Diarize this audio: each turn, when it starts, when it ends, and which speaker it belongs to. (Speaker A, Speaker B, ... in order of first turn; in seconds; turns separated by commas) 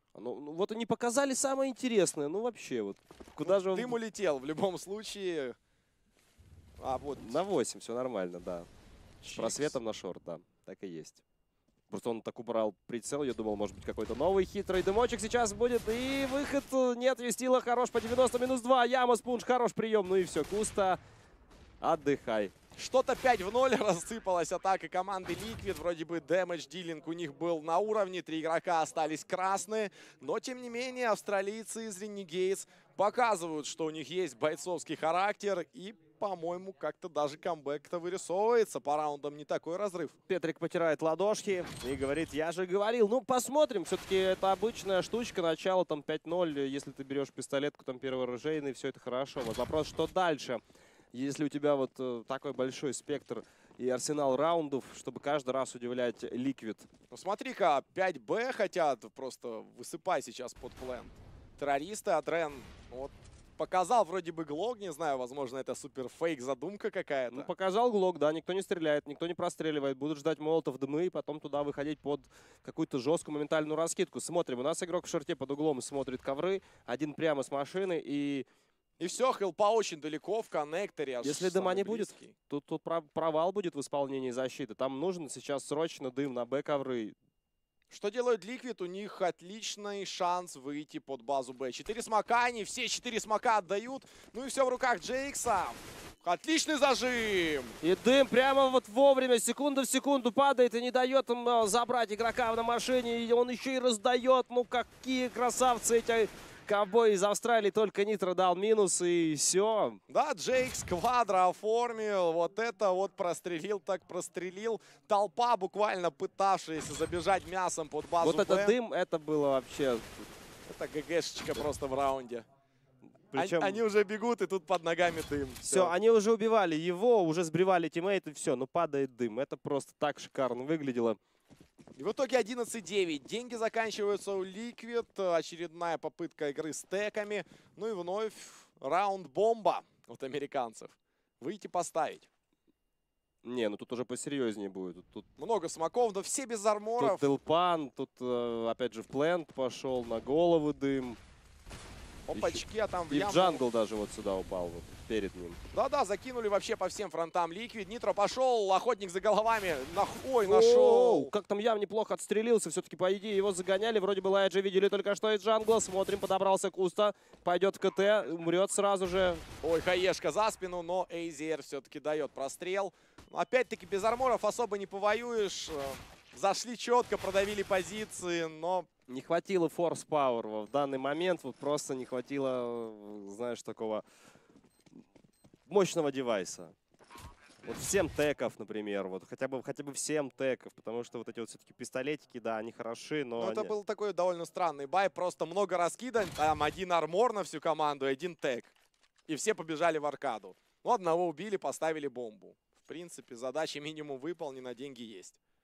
Speaker A: 0.1-4.0, Speaker B: 3.4-5.5, Speaker B: 6.8-7.4, Speaker A: 7.2-8.7, Speaker B: 9.2-9.7, Speaker A: 9.3-11.2, Speaker A: 11.9-21.0, Speaker A: 21.8-22.5, Speaker B: 22.7-40.1, Speaker A: 40.3-50.6, Speaker A: 51.1-56.9, Speaker B: 57.1-67.5, Speaker A: 67.3-78.5, Speaker B: 79.0-82.3, Speaker A: 81.2-87.1, Speaker B: 87.9-97.8, Speaker A: 97.8-110.0, Speaker B: 110.1-118.7, Speaker A: 118.2-120.2, Speaker B: 120.7-122.5, Speaker A: 123.3-123.8, Speaker B: 123.3-125.9, Speaker A: 125.6-131.2, Speaker B: 132.0-142.3, Speaker A: 143.4-145.2, Speaker B: 145.4-147.2, Speaker A: 147.0-151.2, Speaker B: 152.3-153.6, Speaker A: 152.3-155.6, Speaker B: 155.7-161.3, Speaker A: 160.4-169.4, Speaker B: 169.6-178.9, Speaker A: 179.1-184.0, Speaker A: 185.7-186.7, Speaker A: 187.6-193.7, Speaker B: 193.4-198.7, Speaker B: 199.3-205.4